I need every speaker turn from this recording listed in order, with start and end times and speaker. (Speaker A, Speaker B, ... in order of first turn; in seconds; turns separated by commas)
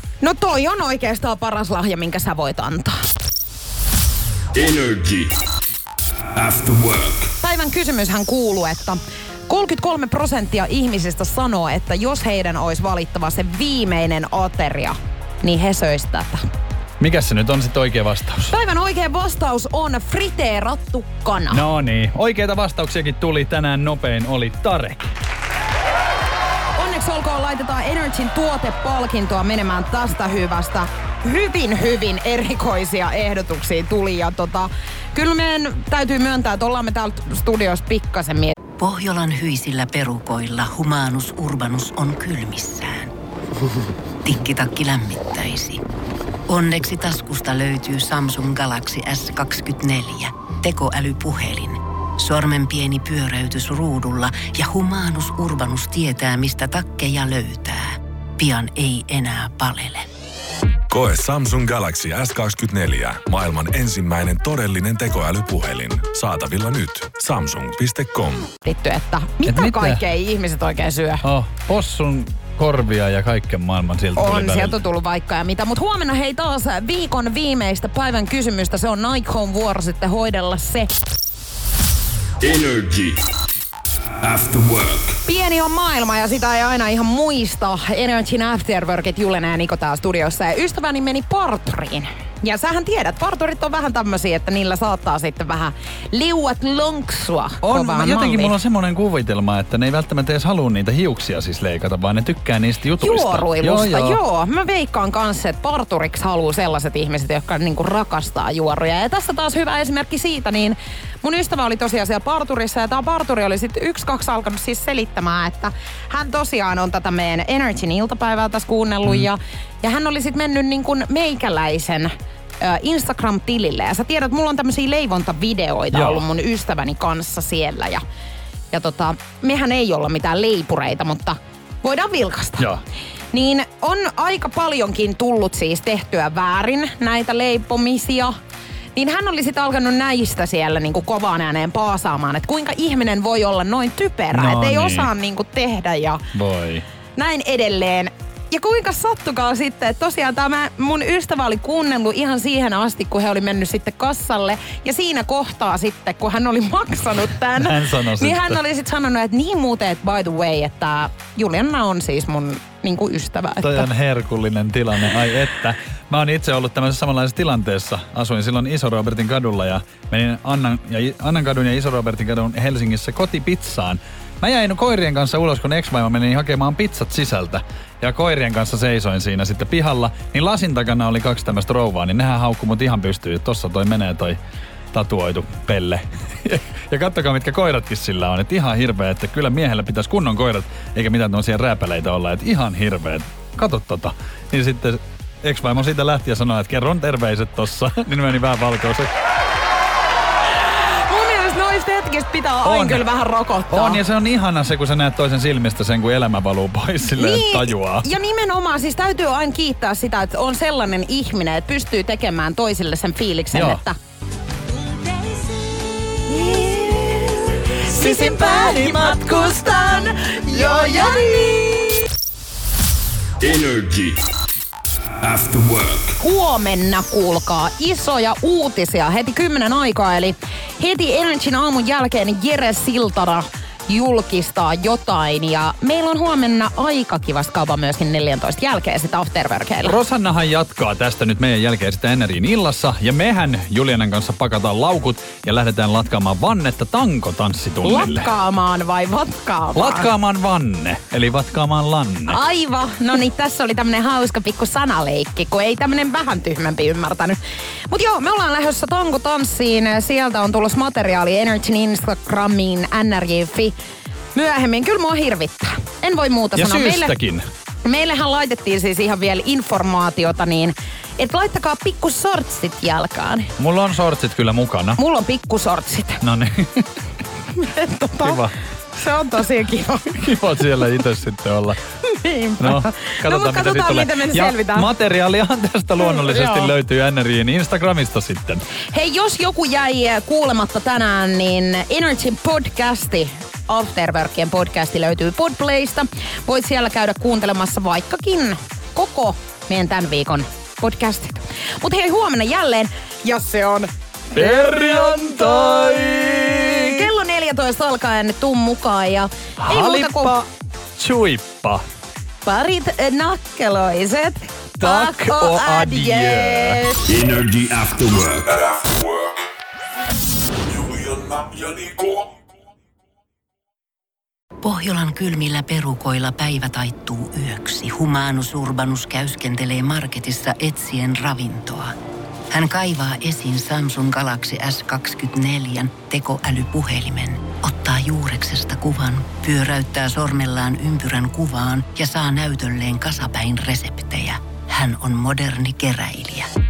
Speaker A: 0.2-3.0, Speaker B: 4.5-5.3, Speaker B: 6.3-7.3, Speaker A: 7.4-16.4, Speaker C: 17.0-18.5, Speaker A: 18.4-21.6, Speaker C: 21.5-25.1, Speaker A: 26.8-38.5, Speaker D: 38.8-43.1, Speaker D: 44.2-45.8, Speaker D: 46.5-60.1, Speaker E: 60.9-68.5, Speaker A: 68.6-71.2, Speaker C: 69.4-70.0, Speaker C: 71.2-74.8, Speaker A: 74.2-80.9, Speaker B: 82.4-83.3, Speaker B: 84.2-85.2, Speaker A: 85.2-98.5, Speaker C: 97.6-104.2, Speaker A: 103.0-128.0, Speaker C: 125.9-126.2, Speaker A: 128.7-132.7, Speaker A: 133.3-138.3, Speaker A: 138.9-146.2, Speaker C: 144.3-145.1, Speaker C: 146.3-146.8, Speaker A: 147.2-163.9, Speaker C: 157.6-158.6, Speaker C: 163.6-184.4, Speaker C: 184.9-199.1, Speaker A: 201.1-204.0, Speaker C: 202.6-203.1, Speaker C: 203.7-208.1, Speaker A: 207.1-214.0, Speaker C: 213.5-213.8, Speaker A: 216.3-222.0, Speaker B: 223.4-224.3, Speaker B: 225.2-226.2, Speaker A: 226.2-240.0, Speaker C: 239.8-248.3, Speaker A: 247.8-250.1, Speaker C: 249.7-252.4, Speaker A: 252.3-257.4, Speaker A: 257.9-263.7, Speaker A: 264.3-267.1, Speaker C: 266.5-267.4, Speaker A: 267.8-273.5, Speaker C: 273.6-275.0, Speaker A: 275.0-276.2, Speaker C: 276.2-276.9, Speaker A: 277.5-280.4, Speaker C: 278.2-278.5, Speaker C: 280.1-281.8, Speaker A: 282.0-284.9, Speaker C: 282.6-288.6, Speaker A: 286.0-286.7, Speaker A: 288.9-305.9, Speaker C: 304.3-307.1, Speaker A: 306.6-310.4, Speaker C: 309.6-310.4, Speaker C: 311.0-311.8, Speaker A: 312.4-317.1, Speaker C: 314.8-316.8, Speaker B: 317.1-319.1, Speaker B: 320.7-322.3, Speaker D: 324.6-331.9, Speaker D: 332.5-346.5